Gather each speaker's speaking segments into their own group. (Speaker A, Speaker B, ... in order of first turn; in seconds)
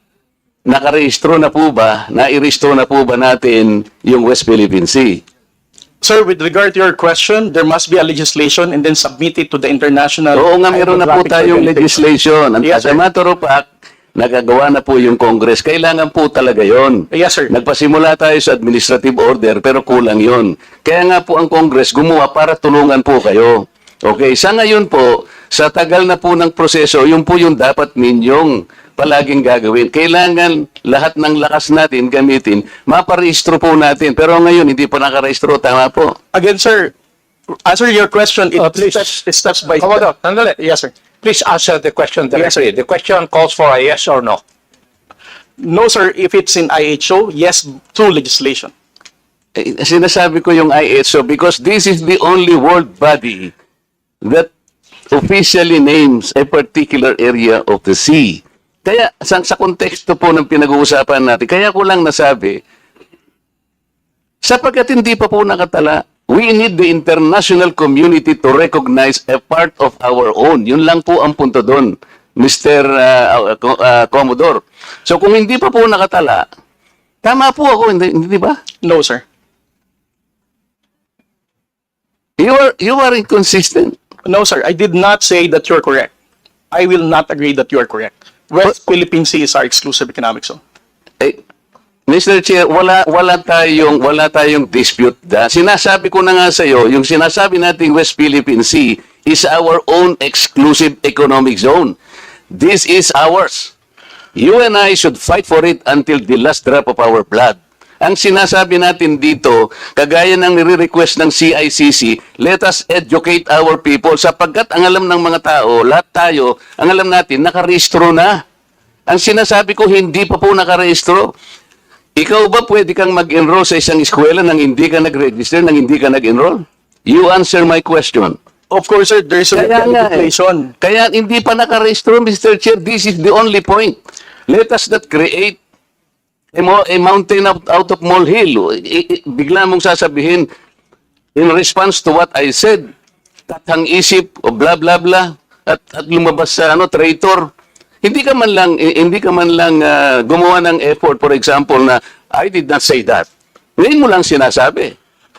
Speaker A: 0.7-5.2, 10.3-36.2, 49.6-53.5, 54.2-54.5, 55.1-62.6, 64.4-76.5, 77.2-78.6, 82.4-84.0, 92.1-102.0, 102.5-103.7, 104.4-118.4, 119.1-121.3, 122.2-128.4, 129.5-134.0, 134.5-135.6, 136.6-140.5, 141.4-142.9, 143.5-147.5, 148.0-154.9
Speaker B: 6.0-12.0, 12.6-13.0, 17.1-17.5, 36.3-36.9, 37.7-40.1, 40.6-40.9, 42.4-42.6, 45.6-48.7, 78.8-79.2, 84.2-86.1, 86.7-90.6, 128.7-130.7
Speaker C: 38.6-39.2, 39.8-40.6, 41.2-44.4